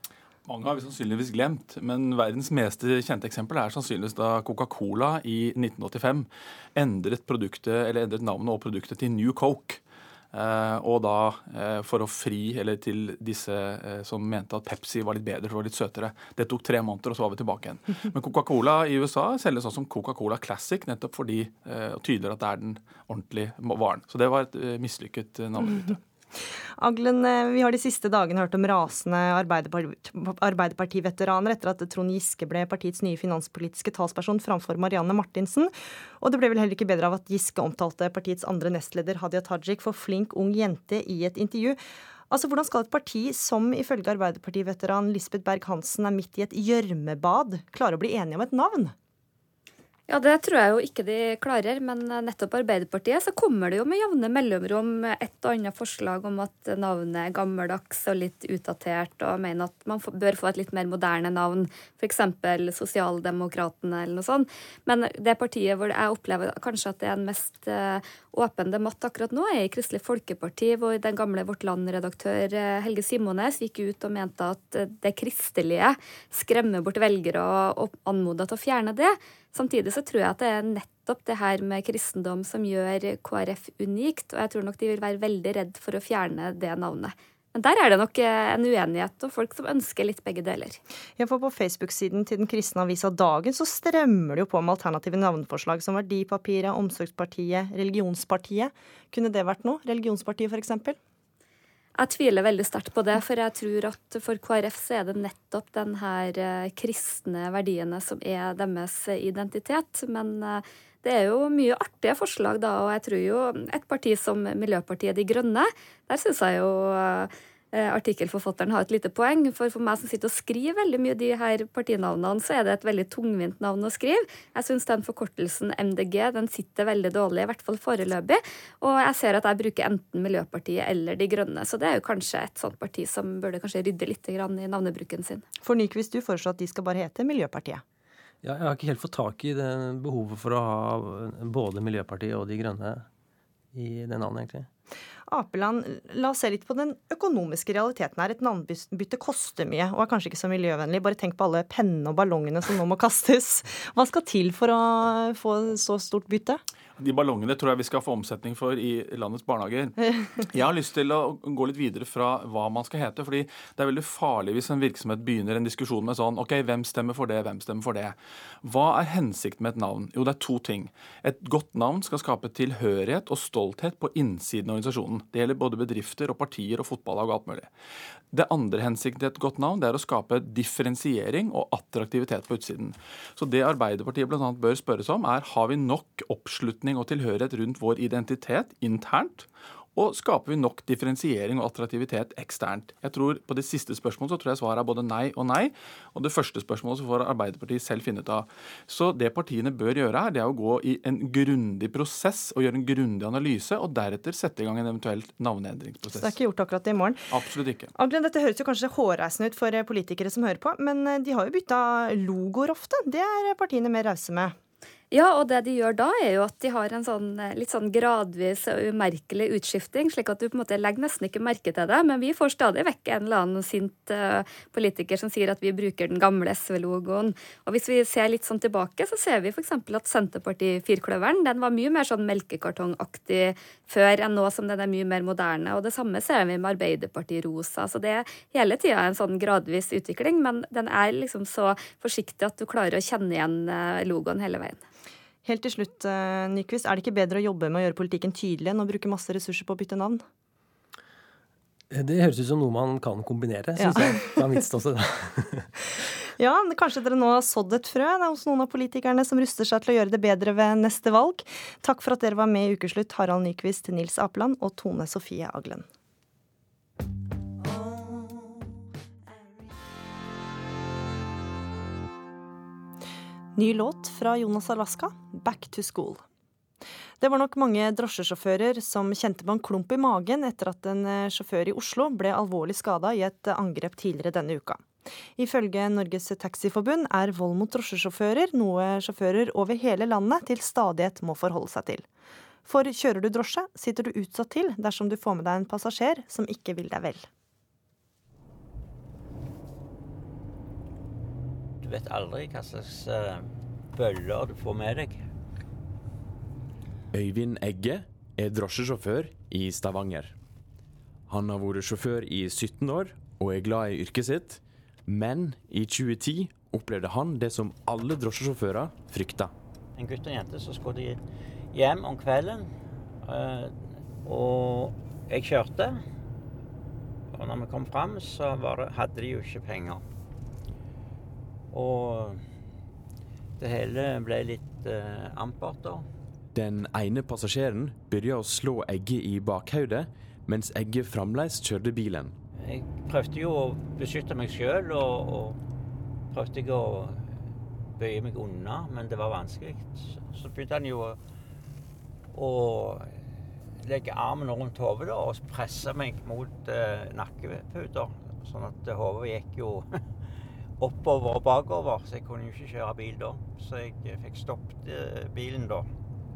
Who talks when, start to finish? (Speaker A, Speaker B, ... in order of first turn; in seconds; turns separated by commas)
Speaker A: 0.5-9.8, Speaker A: 10.3-26.0, Speaker B: 26.8-41.8, Speaker B: 42.3-48.9, Speaker C: 50.1-90.8, Speaker B: 91.2-101.0, Speaker C: 102.0-135.4, Speaker B: 135.6-137.8, Speaker D: 138.4-143.1, Speaker D: 143.7-144.7, Speaker B: 145.3-156.6, Speaker A: 157.0-159.9, Speaker A: 160.5-177.7, Speaker A: 178.3-206.3, Speaker B: 206.1-207.2, Speaker A: 207.3-207.9, Speaker B: 207.9-214.5, Speaker C: 215.1-244.8, Speaker B: 245.4-250.2, Speaker D: 251.9-255.7, Speaker B: 253.8-254.5, Speaker B: 256.4-265.8, Speaker B: 273.6-276.2, Speaker B: 277.2-284.8, Speaker B: 285.4-292.0, Speaker B: 292.6-297.2, Speaker E: 301.8-305.2, Speaker F: 307.1-310.3, Speaker F: 311.3-319.5, Speaker E: 319.9-322.7, Speaker E: 323.2-326.0, Speaker E: 327.3-330.0, Speaker E: 331.7-332.4, Speaker E: 333.6-336.1, Speaker F: 336.5-342.3, Speaker E: 342.6-345.6, Speaker E: 346.3-347.3, Speaker E: 348.0-351.2, Speaker E: 352.3-353.1, Speaker E: 353.8-360.0, Speaker E: 360.8-365.9